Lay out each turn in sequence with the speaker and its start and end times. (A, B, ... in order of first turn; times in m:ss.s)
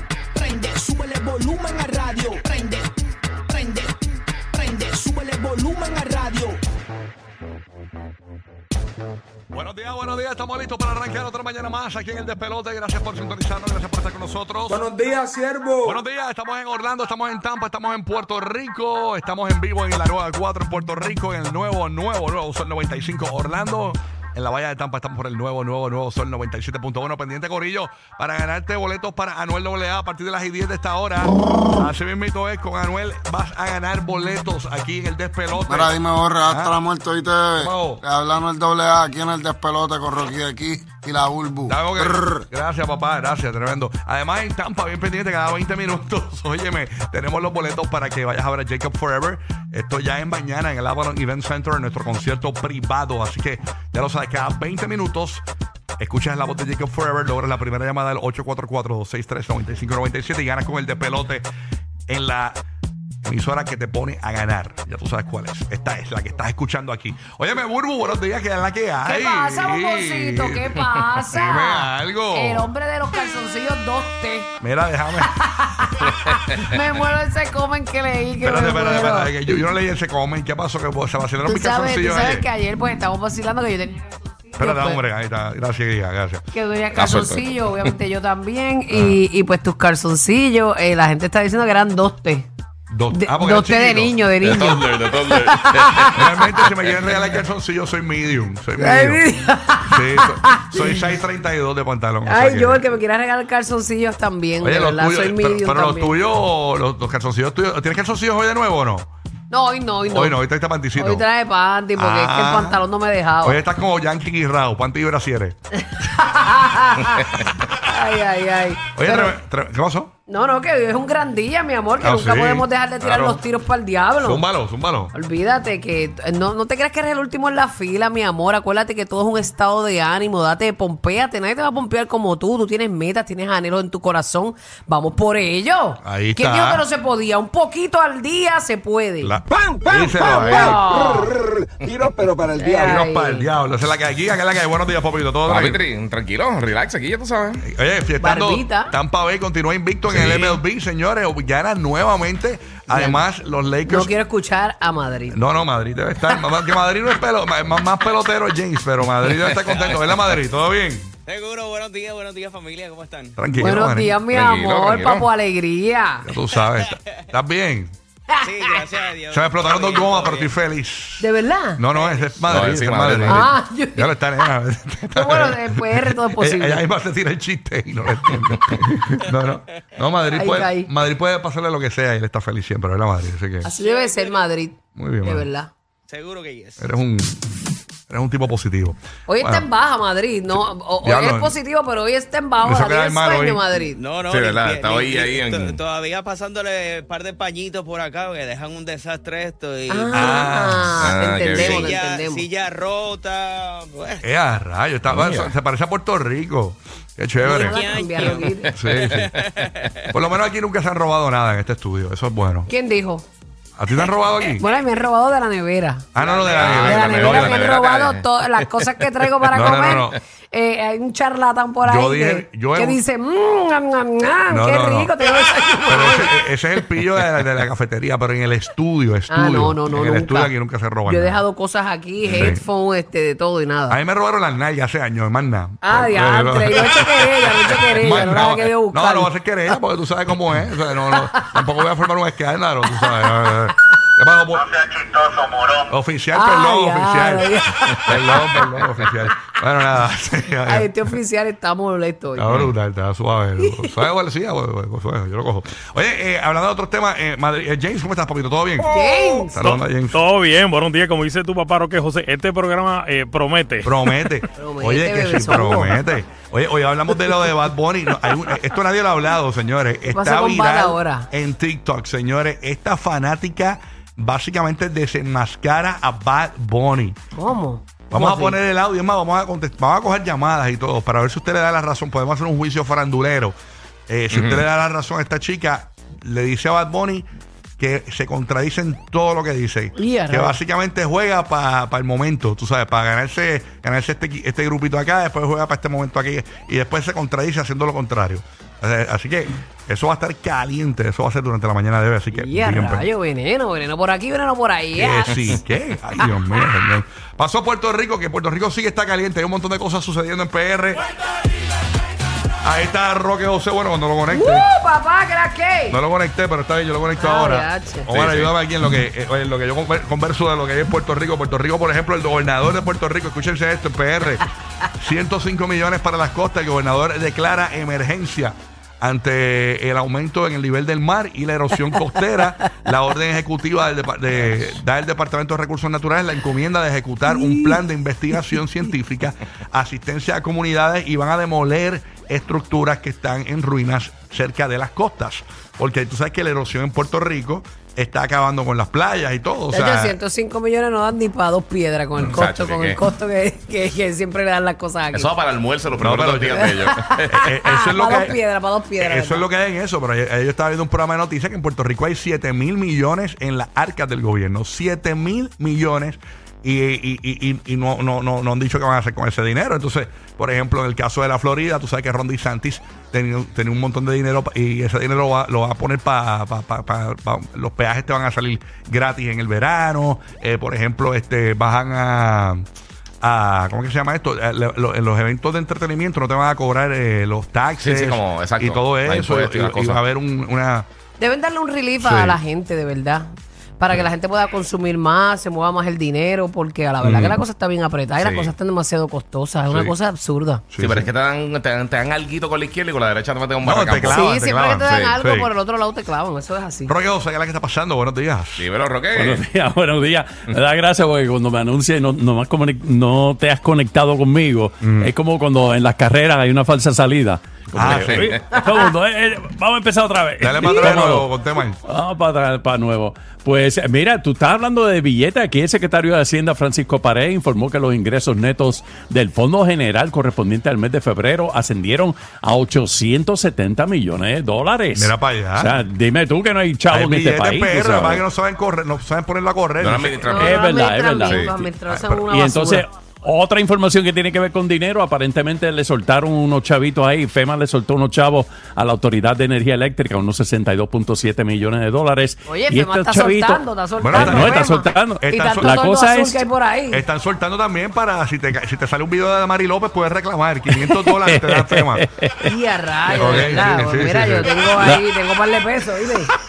0:00.4-0:02.9 A
0:03.5-0:06.6 A
0:09.5-0:14.9 B
0:14.7-0:15.9 C
0:15.8-0:36.8 B
0:35.6-0:42.4 D
0:37.6-0:38.0 B
0:41.7-0:55.4 B
0:56.0-1:01.5 B
1:02.1-1:02.6 B
1:03.2-1:12.7 B
1:09.0-1:14.5 E
1:14.6-1:15.3 B
1:15.2-1:19.6 E
1:18.4-1:22.5 B
1:21.4-1:25.0 E
1:24.6-1:26.4 B
1:26.5-1:32.5 E
1:26.9-1:27.9 F
1:28.9-1:29.2 B
1:32.9-1:34.2 B
1:33.1-1:36.5 E
1:34.4-1:37.2 F
1:36.1-1:39.2 B
1:38.8-1:41.0 E
1:39.8-1:42.9 B
1:42.2-1:46.2 E
1:44.6-1:49.1 B
1:49.5-1:50.4 E
1:50.1-1:51.3 B
1:51.0-1:53.6 E
1:52.0-1:52.8 B
1:53.4-1:55.6 B
1:55.9-1:59.4 E
1:59.0-2:00.1 B
2:00.3-2:04.4 E
2:02.0-2:03.4 B
2:04.2-2:05.1 B
2:05.1-2:19.3 E
2:16.0-2:16.8 B
2:19.2-2:20.9 B
2:20.2-2:21.3 E
2:20.3-2:20.7 F
2:22.6-2:23.5 E
2:22.7-2:25.8 B
2:25.5-2:27.6 F
2:27.6-2:34.1 B
2:28.2-2:28.9 E
2:30.1-2:30.6 F
2:32.9-2:33.2 E
2:33.9-2:35.4 E
2:35.3-2:41.1 B
2:39.2-2:39.9 F
2:41.2-2:43.4 G
2:43.4-2:44.2 B
2:43.6-2:46.3 E
2:44.3-2:45.3 F
2:46.2-2:47.9 B
2:48.3-2:48.8 E
2:48.4-2:50.5 G
2:49.3-3:03.7 B
2:51.2-2:51.8 E
2:51.9-2:52.4 G
2:52.5-2:53.5 F
2:53.3-2:54.3 E
2:55.1-2:56.8 E
3:00.3-3:00.9 E
3:03.6-3:05.7 E
3:03.8-3:04.4 G
3:05.0-3:05.5 B
3:06.1-3:06.9 G
3:06.8-3:07.4 B
3:08.1-3:09.7 B
3:09.3-3:14.0 E
3:11.0-3:11.5 B
3:12.6-3:13.6 B
3:13.8-3:20.4 G
3:14.3-3:15.8 F
3:19.9-3:22.4 E
3:20.1-3:21.0 B
3:21.0-3:21.9 F
3:21.5-3:24.2 G
3:24.2-3:27.8 B
3:25.1-3:25.5 F
3:27.4-3:28.7 E
3:27.5-3:28.5 G
3:28.5-3:29.9 F
3:28.7-3:29.3 B
3:29.2-3:30.0 G
3:30.1-3:32.7 B
3:32.7-3:33.3 E
3:33.8-3:34.7 B
3:34.6-3:46.4 E
3:36.2-3:37.6 B
3:36.2-3:36.6 G
3:36.5-3:38.9 F
3:39.5-3:40.2 B
3:39.7-3:40.1 F
3:41.8-3:43.0 B
3:44.5-3:45.1 B
3:45.9-3:51.4 B
3:49.3-3:50.5 E
3:51.0-3:54.0 E
3:52.2-3:52.5 F
3:52.3-3:52.6 B
3:53.9-4:04.9 B
3:55.8-3:59.3 E
4:01.1-4:01.7 E
4:03.0-4:03.4 E
4:04.8-4:05.7 C
4:05.9-4:07.6 B
4:06.3-4:08.8 E
4:08.1-4:10.9 B
4:10.7-4:12.5 E
4:12.4-4:20.2 B
4:13.6-4:13.9 E
4:18.9-4:19.8 E
4:20.1-4:24.1 H
4:23.8-4:37.2 B
4:24.5-4:26.1 E
4:30.1-4:31.3 E
4:37.3-4:38.6 E
4:38.1-4:43.5 B
4:44.1-4:47.2 B
4:44.3-4:44.6 F
4:47.8-5:03.1 B
4:50.0-4:50.6 E
5:02.3-5:05.6 E
5:04.9-5:11.0 B
5:06.2-5:06.4 E
5:12.6-5:14.7 B
5:14.3-5:16.0 E
5:15.9-5:50.2 B
5:17.2-5:18.1 E
5:18.1-5:18.5 F
5:37.3-5:37.7 E
5:49.7-5:55.3 E
5:52.2-5:53.0 F
5:55.1-5:57.3 F
5:56.0-5:56.7 B
5:56.6-5:59.5 E
5:57.3-5:58.4 B
5:59.0-6:22.6 B
6:23.2-6:30.9 B
6:27.8-6:30.0 F
6:31.2-6:40.6 E
6:32.0-6:32.4 B
6:37.0-6:37.4 B
6:38.2-6:38.5 F
6:40.7-6:41.1 B
6:40.8-6:44.3 F
6:43.6-6:45.5 B
6:44.1-6:46.9 E
6:44.8-6:45.2 F
6:46.9-6:48.6 B
6:48.6-6:49.4 F
6:49.1-7:01.3 I
6:54.8-6:55.1 B
6:57.7-6:58.4 B
7:00.4-7:01.8 B
7:01.9-7:18.2 I
7:14.9-7:15.8 B
7:16.9-7:20.3 B
7:19.8-7:20.6 F
7:20.3-7:22.9 E
7:20.3-7:21.7 I
7:21.2-7:21.6 F
7:21.9-7:22.2 B
7:22.3-7:36.4 I
7:32.5-7:37.0 E
7:34.0-7:34.6 B
7:35.2-7:35.8 B
7:36.9-7:42.0 B
7:40.7-7:42.5 I
7:42.4-7:46.3 E
7:43.1-7:44.6 B
7:44.7-7:45.0 I